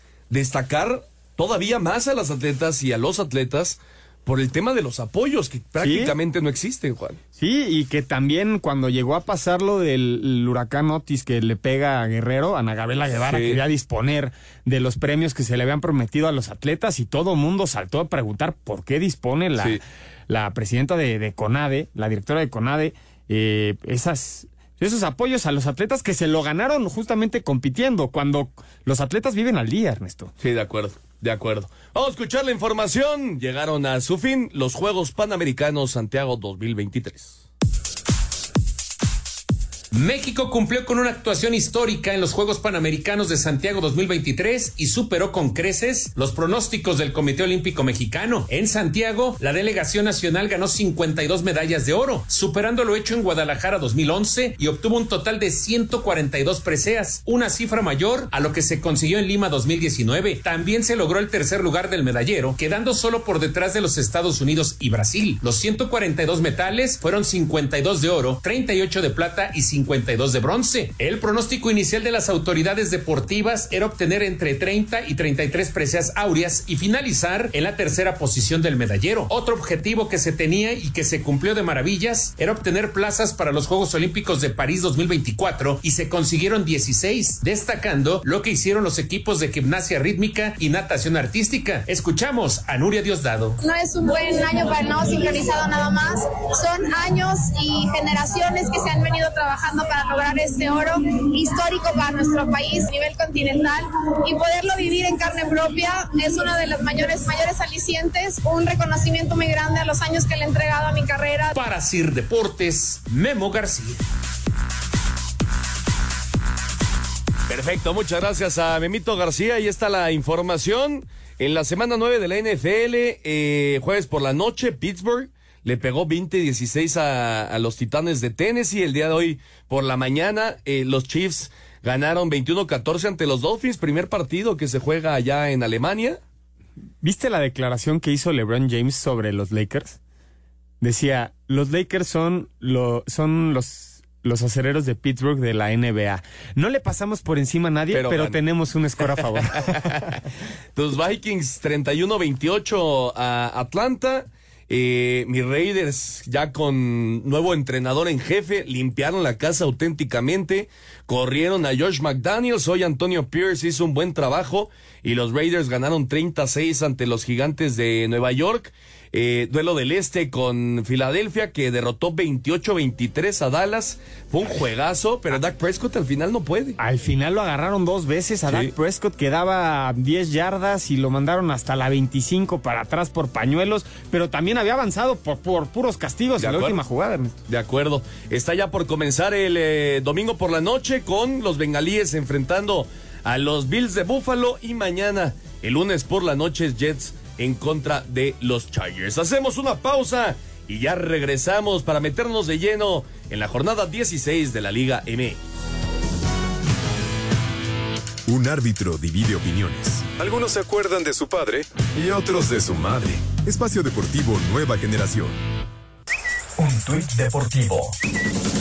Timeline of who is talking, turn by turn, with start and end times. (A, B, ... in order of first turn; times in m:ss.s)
0:00.3-0:07.2 A
0:05.8-0:06.1 B
0:07.4-0:19.8 B
0:13.2-0:13.6 A
0:20.3-0:30.3 B
0:30.4-0:37.4 A
0:39.9-1:33.6 C
1:33.6-1:51.5 D
1:51.5-1:54.0 C
1:57.5-2:16.2 A
2:17.0-2:20.0 B
2:20.8-2:30.0 B
2:27.9-2:28.4 A
2:29.1-2:30.2 A
2:30.8-2:56.8 A
2:56.8-3:07.3 B
3:06.4-3:06.8 A
3:07.4-3:25.4 A
3:28.3-3:35.4 E